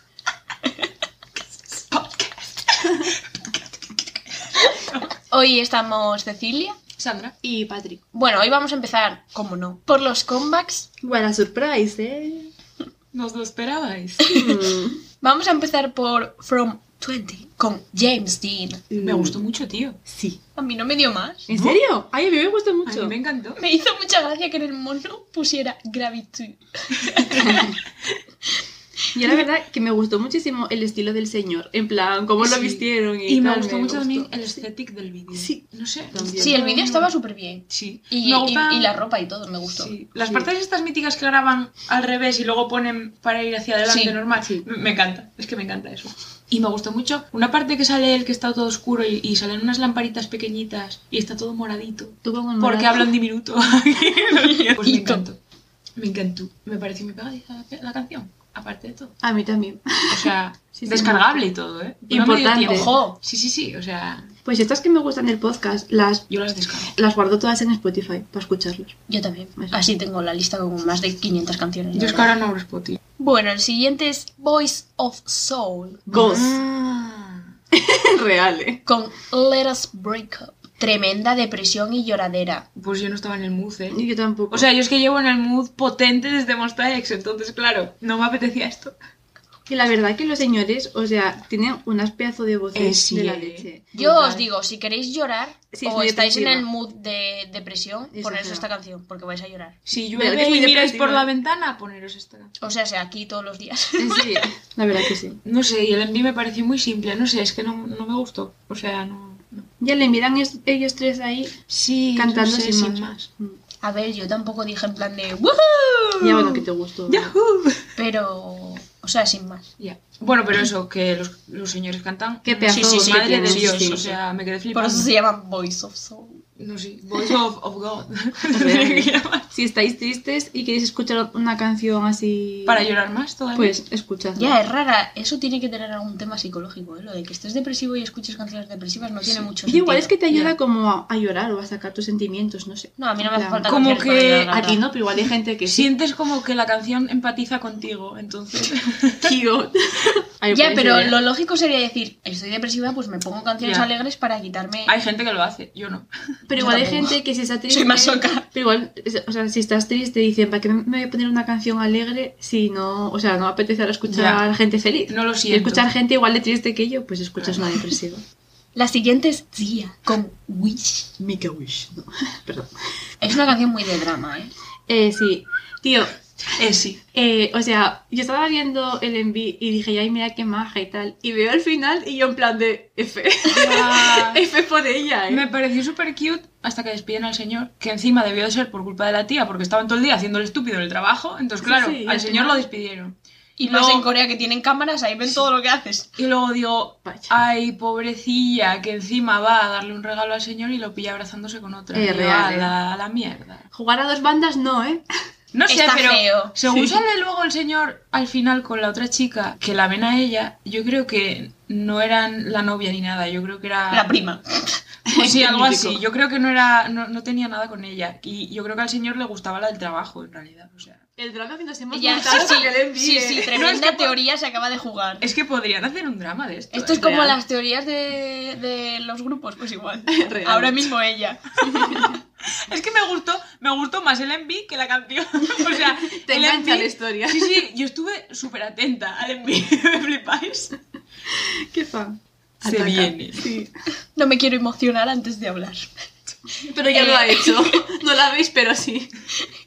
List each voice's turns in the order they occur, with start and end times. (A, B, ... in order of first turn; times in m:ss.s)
0:01.4-0:03.6 A
0:04.6-0:05.1 A
0:05.3-0:06.8 B
0:07.0-0:07.4 A
0:07.4-0:08.0 C
0:08.1-0:10.9 B
0:11.0-0:12.5 C
0:13.1-0:14.2 A
0:14.2-0:14.6 B
0:14.3-0:15.0 C
0:15.2-0:18.8 B
0:18.9-0:19.4 C
0:19.0-0:20.0 A
0:20.1-0:20.4 C
0:20.6-0:21.5 B
0:21.5-0:23.1 C
0:21.5-0:21.8 A
0:22.8-0:23.6 A
0:23.6-0:27.8 B
0:27.1-0:27.7 A
0:29.2-0:34.6 C
0:32.4-0:37.1 A
0:35.3-0:36.6 C
0:36.4-0:39.9 B
0:37.7-0:39.0 A
0:39.8-0:55.4 A
0:40.2-0:40.5 C
0:43.8-0:44.2 B
0:44.4-0:44.7 C
0:52.2-0:53.1 C
0:54.3-0:55.2 B
0:56.0-0:59.1 A
0:59.2-1:01.4 C
1:00.1-1:04.3 A
1:02.1-1:02.9 C
1:02.7-1:03.2 B
1:04.4-1:06.3 C
1:06.3-1:06.9 A
1:06.9-1:09.0 C
1:09.1-1:12.4 B
1:09.6-1:09.8 C
1:11.9-1:13.0 A
1:13.2-1:16.1 B
1:16.1-1:16.6 C
1:16.1-1:17.4 A
1:17.7-1:18.8 C
1:18.9-1:22.7 B
1:22.8-1:24.0 A
1:23.9-1:24.7 C
1:24.5-1:29.0 A
1:29.7-1:34.5 C
1:32.7-1:33.7 A
1:34.0-1:39.8 B
1:35.7-1:36.7 C
1:38.1-1:38.7 C
1:39.9-1:42.5 A
1:40.2-1:41.3 C
1:42.6-1:44.5 B
1:44.0-1:45.4 C
1:45.4-1:49.7 A
1:49.8-1:51.6 C
1:51.7-1:53.3 A
1:52.2-1:53.6 C
1:53.8-1:56.5 B
1:56.2-1:57.4 C
1:57.1-1:57.8 A
1:58.0-1:59.7 B
1:59.8-2:05.1 A
2:02.4-2:04.2 C
2:02.7-2:04.0 B
2:04.7-2:06.4 B
2:06.6-2:09.5 A
2:08.5-2:12.9 C
2:12.7-2:13.8 A
2:13.6-2:14.6 C
2:14.4-2:20.2 B
2:19.2-2:19.5 A
2:19.7-2:23.7 C
2:23.0-2:24.8 B
2:23.6-2:24.6 A
2:24.5-2:25.9 C
2:25.6-2:29.3 A
2:29.2-2:31.2 C
2:30.5-2:35.0 B
2:33.6-2:33.9 A
2:34.9-2:36.1 A
2:36.5-2:48.2 C
2:36.6-2:37.2 B
2:37.7-2:38.5 B
2:44.1-2:44.4 A
2:45.1-2:45.9 A
2:47.4-2:47.7 A
2:48.8-2:51.1 B
2:51.2-2:52.7 C
2:53.2-2:54.5 B
2:54.9-2:56.2 C
2:56.6-2:57.0 A
2:57.1-3:05.5 C
3:03.5-3:04.4 A
3:05.3-3:14.1 A
3:11.6-3:12.7 C
3:13.6-3:16.2 B
3:16.2-3:23.6 A
3:17.0-3:17.3 C
3:21.9-3:22.7 C
3:23.7-3:25.0 C
3:25.5-3:34.1 A
3:25.7-3:26.6 B
3:26.7-3:27.0 C
3:33.9-3:34.8 B
3:35.1-3:36.0 C
3:35.1-3:41.0 A
3:41.2-3:43.6 C
3:41.9-3:45.3 B
3:42.2-3:42.7 A
3:43.5-3:44.2 A
3:45.2-3:47.0 A
3:46.7-3:52.1 B
3:47.0-3:47.4 C
3:50.1-3:50.9 C
3:51.6-3:52.2 C
3:51.8-4:00.8 A
3:55.8-3:57.6 C
4:01.3-4:03.7 C
4:02.6-4:03.5 A
4:04.2-4:05.9 B
4:06.7-4:09.1 C
4:06.9-4:07.8 B